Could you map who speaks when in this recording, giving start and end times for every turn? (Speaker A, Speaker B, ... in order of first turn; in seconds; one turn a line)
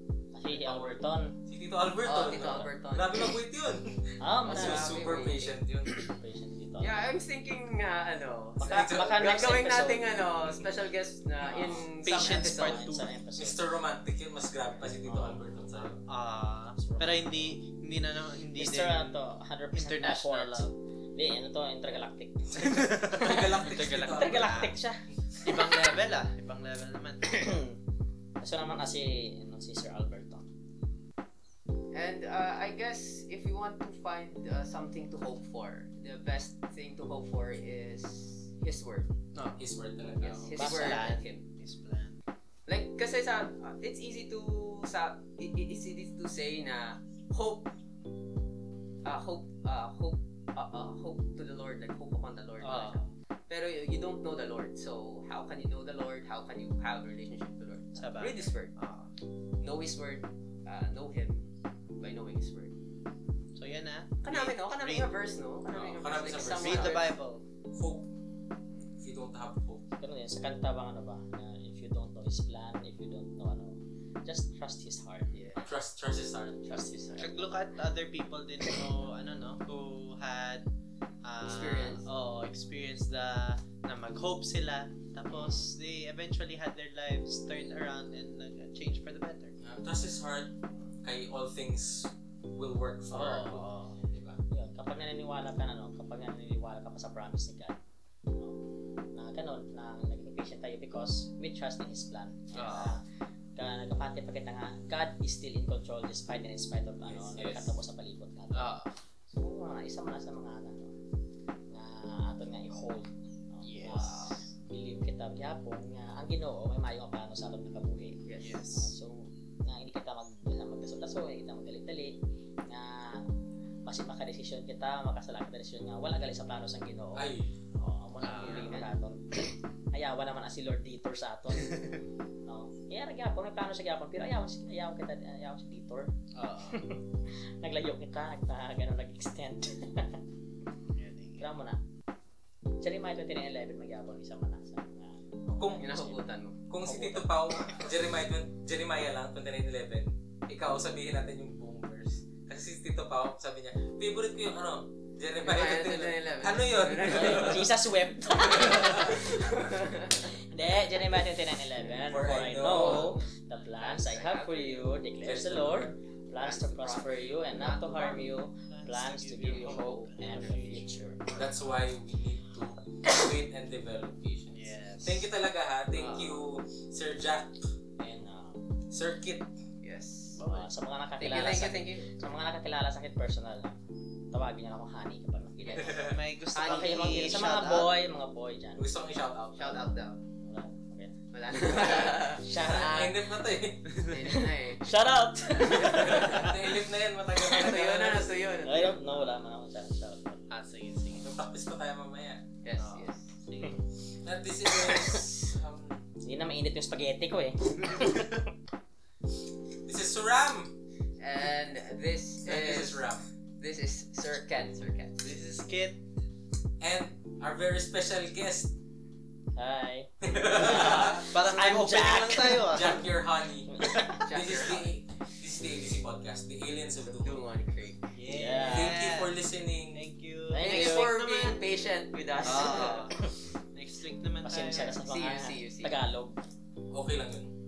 Speaker A: 0.3-1.3
Speaker B: 0.5-6.1
Speaker C: 2.0-3.3
Speaker A: 4.2-5.4
Speaker C: 4.5-5.6
Speaker A: 6.0-7.1
Speaker C: 6.8-12.9
Speaker A: 8.6-10.1
Speaker B: 8.6-9.4
Speaker A: 11.5-13.6
Speaker D: 12.0-13.1
Speaker B: 13.4-16.0
Speaker D: 15.1-15.4
Speaker D: 16.1-19.2
Speaker A: 16.8-17.6
Speaker A: 18.6-25.8
Speaker D: 19.7-20.7
Speaker D: 22.6-24.8
Speaker B: 23.1-24.7
Speaker D: 25.4-27.5
Speaker A: 27.3-27.8
Speaker A: 28.4-30.5
Speaker C: 31.9-39.1
Speaker D: 39.4-39.6
Speaker B: 39.6-40.5
Speaker C: 40.2-41.5
Speaker A: 40.5-41.1
Speaker D: 40.6-42.2
Speaker C: 42.7-47.7
Speaker C: 49.0-58.7
Speaker D: 52.6-53.1
Speaker D: 58.0-59.1
Speaker C: 59.6-62.7
Speaker D: 63.6-65.1
Speaker C: 64.2-67.1
Speaker B: 65.7-67.1
Speaker D: 66.5-67.4
Speaker B: 67.7-68.1
Speaker C: 68.7-69.0
Speaker B: 69.0-69.8
Speaker A: 70.0-75.3
Speaker C: 75.3-75.6
Speaker B: 75.6-76.7
Speaker C: 76.7-77.5
Speaker A: 76.7-77.6
Speaker D: 77.2-80.7
Speaker D: 81.2-89.5
Speaker C: 81.4-82.0
Speaker C: 85.3-85.6
Speaker B: 89.6-94.4
Speaker D: 93.1-94.0
Speaker A: 94.5-97.8
Speaker A: 99.1-103.0
Speaker D: 102.5-103.0
Speaker A: 103.6-108.8
Speaker B: 107.0-107.8
Speaker D: 108.5-108.9
Speaker A: 109.3-111.0
Speaker A: 111.7-123.3
Speaker D: 113.6-114.5
Speaker C: 118.3-118.6
Speaker D: 118.4-118.9
Speaker A: 123.9-129.2
Speaker B: 127.2-127.5
Speaker D: 128.2-128.8
Speaker C: 128.3-128.9
Speaker A: 129.9-131.9
Speaker A: 132.5-136.1
Speaker D: 136.3-136.9
Speaker A: 136.7-140.2
Speaker D: 140.9-141.5
Speaker A: 141.4-141.8
Speaker A: 142.8-146.2
Speaker B: 145.5-145.9
Speaker C: 145.8-147.3
Speaker B: 146.7-157.7
Speaker C: 155.4-157.7
Speaker A: 157.1-159.5
Speaker B: 158.5-159.3
Speaker C: 158.6-160.3
Speaker A: 160.2-171.4
Speaker B: 162.1-163.2
Speaker C: 162.6-164.9
Speaker D: 162.7-163.1
Speaker B: 165.2-165.9
Speaker C: 166.4-168.2
Speaker D: 168.7-171.5
Speaker C: 169.5-170.8
Speaker B: 171.3-178.2
Speaker D: 174.5-175.3
Speaker D: 176.0-176.4
Speaker A: 178.0-178.6
Speaker B: 178.9-179.5
Speaker C: 179.8-180.4
Speaker D: 180.3-180.7
Speaker A: 180.4-183.8
Speaker C: 181.2-182.1
Speaker A: 184.3-188.9
Speaker B: 185.7-186.2
Speaker D: 186.0-187.9
Speaker C: 186.6-187.0
Speaker B: 188.8-189.9
Speaker C: 189.6-190.2
Speaker A: 190.4-193.3
Speaker C: 191.3-192.4
Speaker B: 191.7-194.0
Speaker C: 194.0-195.0
Speaker A: 194.1-196.6
Speaker C: 195.5-196.5
Speaker B: 195.8-198.3
Speaker C: 197.4-199.3
Speaker A: 198.7-200.4
Speaker D: 200.5-201.3
Speaker B: 201.1-202.4
Speaker C: 202.6-203.3
Speaker D: 202.8-203.8
Speaker B: 204.2-206.0
Speaker A: 204.8-205.2
Speaker A: 206.2-208.5
Speaker B: 209.8-210.7
Speaker C: 211.2-213.1
Speaker B: 212.5-213.3
Speaker C: 213.6-215.3
Speaker D: 215.2-216.0
Speaker B: 216.8-218.7
Speaker A: 219.6-222.9
Speaker B: 220.2-221.3
Speaker D: 220.7-223.1
Speaker B: 222.7-227.4
Speaker A: 223.7-224.3
Speaker C: 224.2-225.0
Speaker C: 227.0-228.1
Speaker D: 228.1-229.4
Speaker A: 228.3-229.0
Speaker B: 228.7-230.0
Speaker D: 229.9-231.6
Speaker A: 230.5-231.1
Speaker C: 230.6-233.1
Speaker D: 232.4-233.2
Speaker A: 232.5-233.4
Speaker D: 233.7-235.0
Speaker A: 234.4-236.4
Speaker C: 235.1-235.9
Speaker B: 236.9-237.5